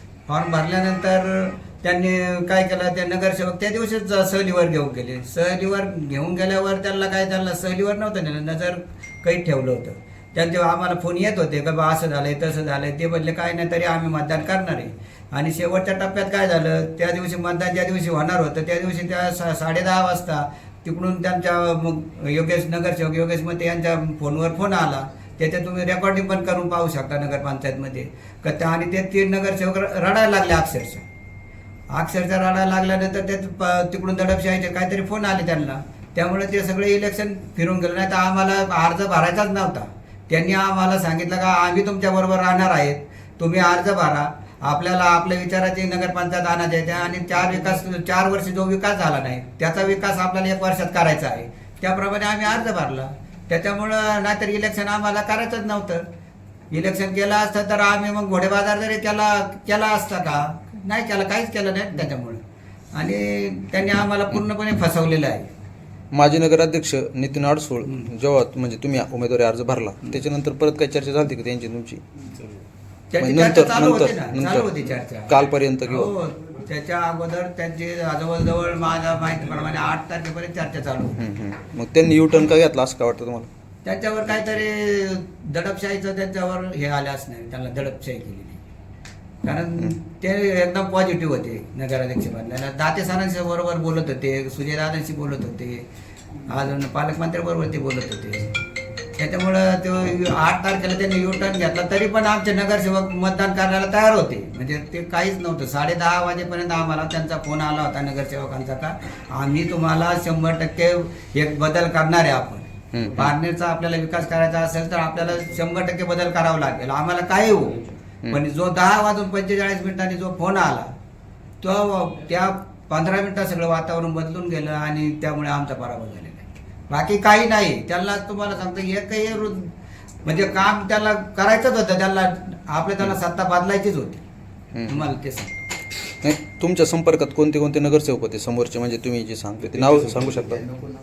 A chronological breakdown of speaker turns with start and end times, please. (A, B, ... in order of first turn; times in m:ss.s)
0:00.3-0:31.1 A
0:31.9-0:56.0 A
0:56.7-1:02.4 A
1:03.0-1:05.5 A
1:06.1-1:12.0 B
1:13.1-1:21.2 A
1:13.2-1:16.1 B
1:21.2-1:23.5 B
1:23.8-1:28.6 A
1:29.4-1:35.8 A
1:36.5-1:38.5 A
1:39.2-2:00.9 A
1:52.9-1:53.4 B
2:01.6-2:09.7 A
2:10.2-2:14.2 A
2:14.8-2:15.1 B
2:14.9-2:15.6 A
2:16.2-2:20.7 B